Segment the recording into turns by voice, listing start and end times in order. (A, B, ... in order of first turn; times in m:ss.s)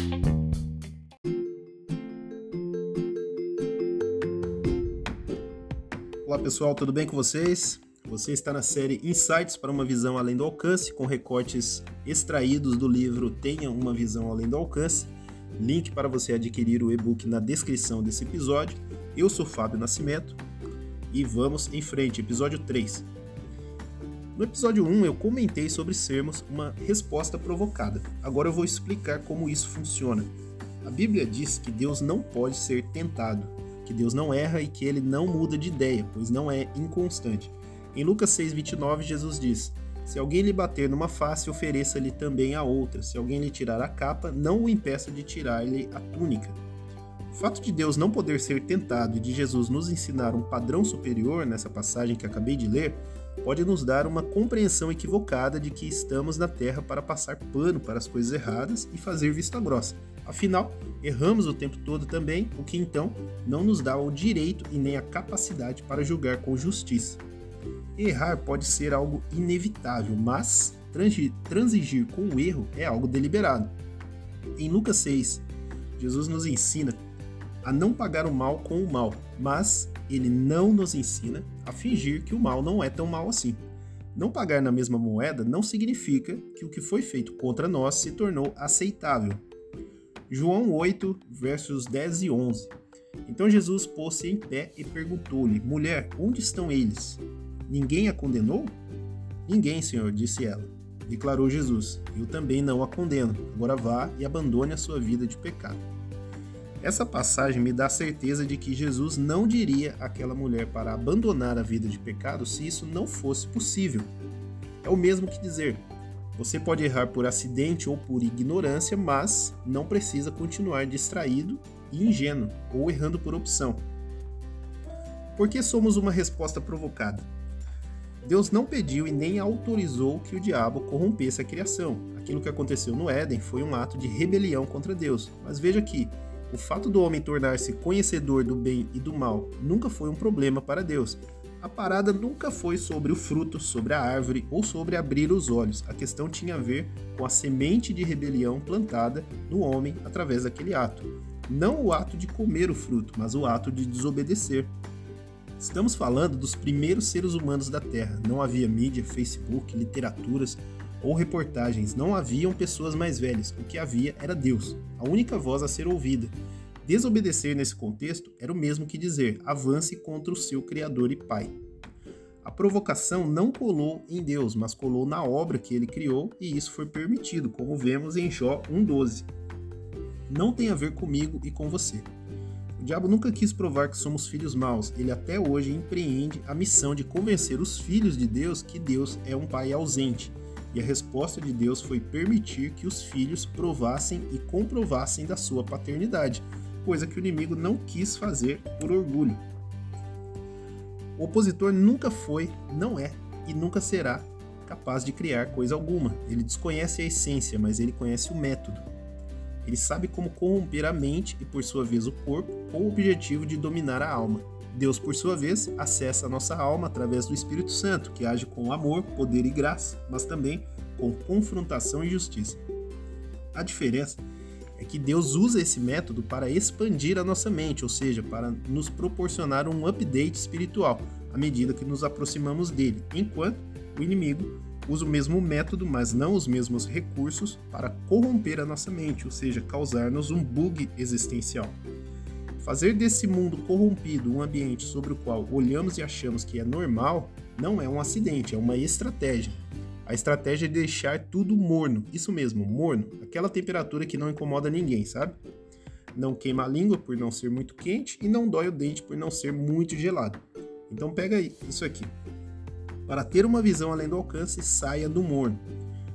0:06.2-0:20.4 A
0:21.1-0:23.1 A
0:24.3-0:30.3 A
0:30.8-0:46.6 A
0:47.3-1:07.2 A
1:08.0-1:13.7 A
1:14.6-1:15.4 A
1:16.0-1:17.0 A
1:17.6-1:23.6 A
1:24.1-1:29.4 A
1:30.3-1:38.8 A
1:39.4-1:45.8 A
1:46.8-1:54.1 A
1:54.8-2:03.8 A
2:05.3-2:07.3 A
2:08.2-2:34.7 A
2:35.6-2:51.5 A
2:52.4-2:59.3 A
3:00.3-3:02.1 A
3:02.8-3:19.4 A
3:21.2-3:28.8 A
3:29.6-3:42.6 A
3:43.5-3:44.2 A
3:44.8-4:01.8 A
4:02.6-4:15.4 A
4:16.1-4:22.1 A
4:23.1-4:25.6 A